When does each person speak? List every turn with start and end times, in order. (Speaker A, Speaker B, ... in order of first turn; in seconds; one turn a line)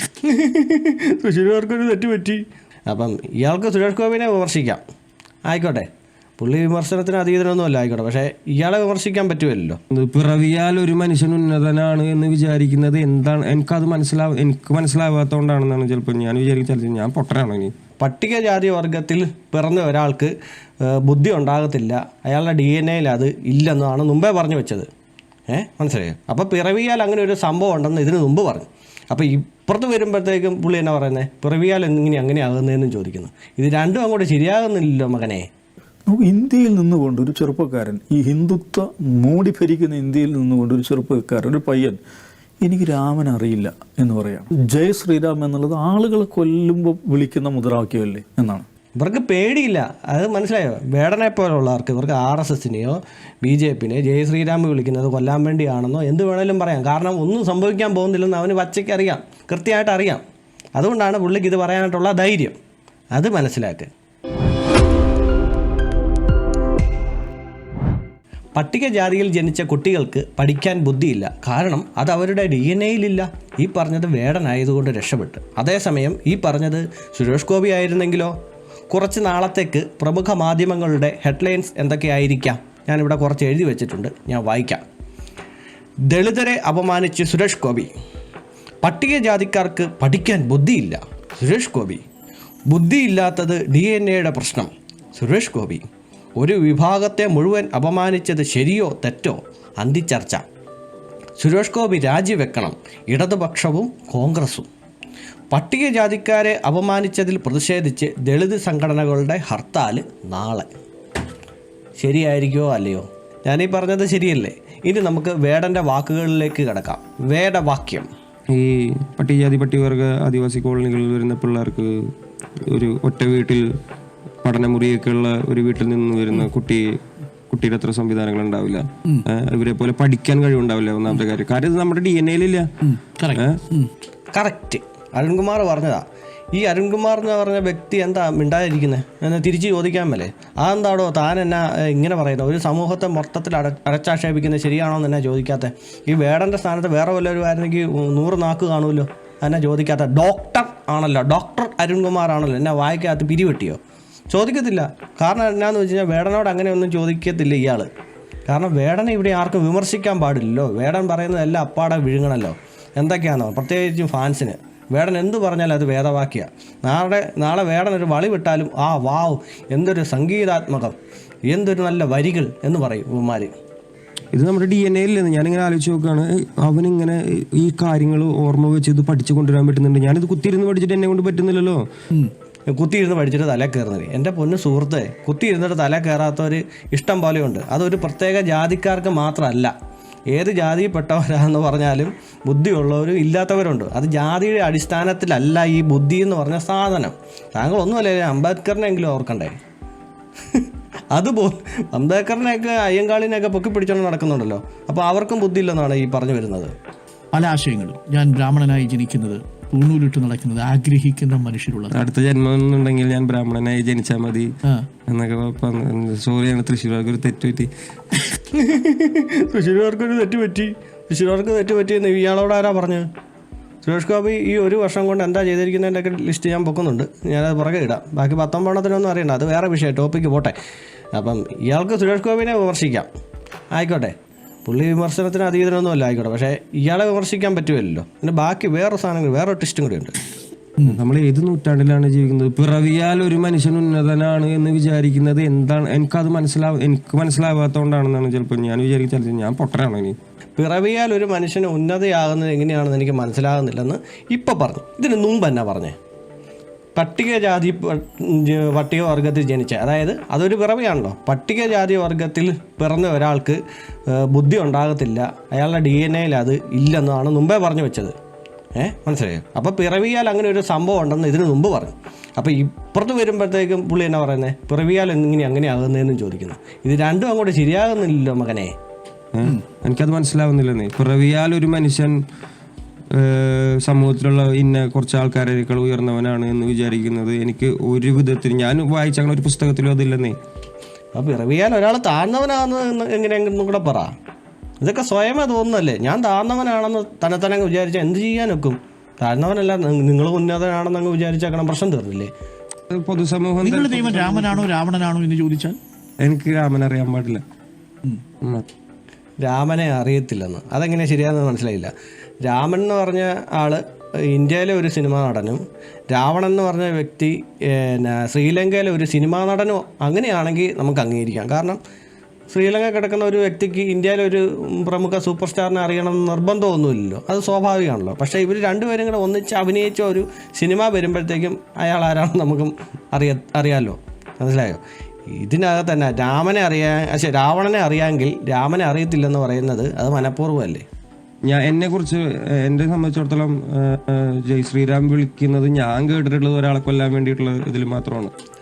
Speaker A: 0.2-4.8
Speaker A: 5.5-5.9
Speaker A: 6.4-9.8
Speaker B: 9.9-17.7
Speaker A: 18.0-24.9
Speaker A: 25.5-35.5
Speaker C: 36.0-42.0
Speaker C: 42.6-48.6
Speaker A: 49.0-60.2
Speaker A: 60.7-62.5
Speaker A: 63.1-63.9
Speaker A: 68.5-78.3
Speaker A: 78.9-84.8
Speaker A: 86.1-87.9
Speaker A: 88.8-92.0
Speaker A: 92.7-95.8
Speaker A: 96.4-100.4
Speaker A: 101.4-104.7
Speaker A: 105.5-110.7
Speaker A: 112.0-118.1
Speaker B: 118.5-121.9
Speaker B: 122.7-123.6
Speaker B: 124.4-126.8
Speaker B: 127.5-132.7
Speaker D: 132.8-133.9
Speaker B: 133.3-133.6
Speaker A: 134.3-153.8
Speaker A: 154.3-157.9
Speaker A: 158.5-170.9
Speaker A: 171.5-173.5
Speaker B: 174.3-181.8
Speaker A: 182.7-189.7
Speaker A: 190.3-199.5
Speaker A: 200.5-206.7
Speaker D: 207.3-211.9
Speaker B: 211.9-214.5
Speaker B: 215.1-218.2
Speaker A: 218.5-223.1
Speaker A: 223.8-230.5
Speaker A: 231.1-233.1
Speaker A: 233.7-234.1
Speaker A: 234.7-240.1
Speaker B: 240.8-250.1
Speaker A: 250.6-255.9
Speaker A: 256.9-268.1
Speaker A: 268.8-278.7
Speaker B: 279.3-282.1
Speaker B: 283.1-290.3
Speaker A: 291.1-294.1
Speaker A: 294.8-302.3
Speaker B: 302.9-304.6
Speaker D: 303.6-305.8
Speaker B: 306.2-307.4
Speaker A: 309.4-321.8
Speaker A: 322.5-340.9
Speaker B: 341.4-348.3